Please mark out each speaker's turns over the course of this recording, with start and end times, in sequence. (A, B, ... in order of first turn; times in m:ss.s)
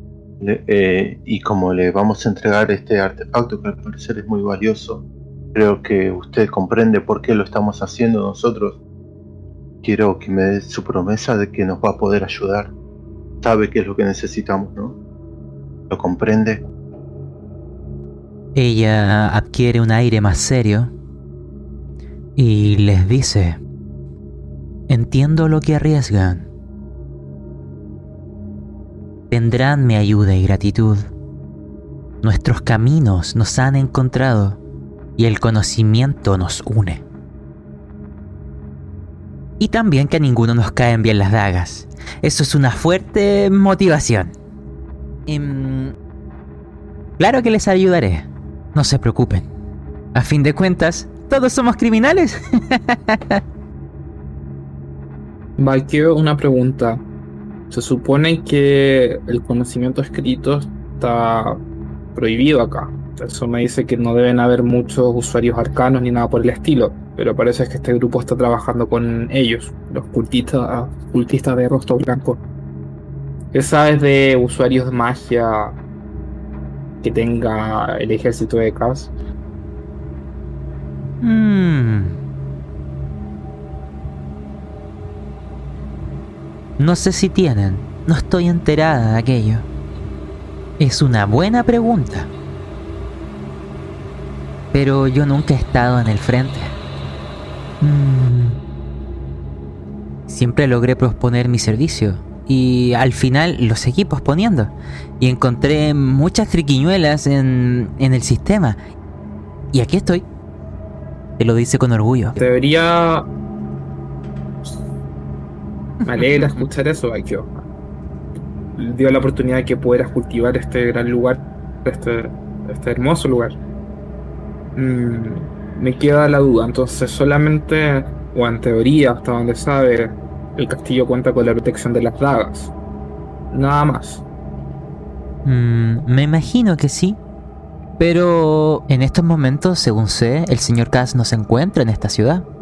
0:00.4-0:08.8 A
0:09.8-0:12.7 A
0:13.4-0:15.0 A
0:15.9-0:16.6 A
0:18.6-0:20.9 B
0:22.4-0:23.6 B
0:24.9-0:26.5 B
0:29.3-0:31.1 B
0:32.2-0:34.6 B
0:35.2-0:37.0 B
0:39.6-0:44.4 B
0:45.3-0:46.0 B
0:47.2-0:49.5 B
0:50.2-0:53.4 B
0:55.6-0:57.0 C
0:57.7-1:01.6 C
1:02.2-1:12.4 C
1:13.5-1:15.8 C
1:17.0-1:19.1 C
1:21.2-1:22.2 B
1:26.8-1:29.7 B
1:30.8-1:32.3 B
1:34.7-1:36.8 B
1:37.8-1:38.6 B
1:40.3-1:48.8 B
1:49.7-1:50.2 B
1:51.4-1:52.4 B
1:52.4-1:53.3 C
1:56.0-1:57.6 C
1:56.2-1:56.6 B
1:58.8-2:03.6 C
2:04.8-2:12.7 C
2:13.5-2:14.2 C
2:15.4-2:17.2 B
2:18.0-2:22.5 B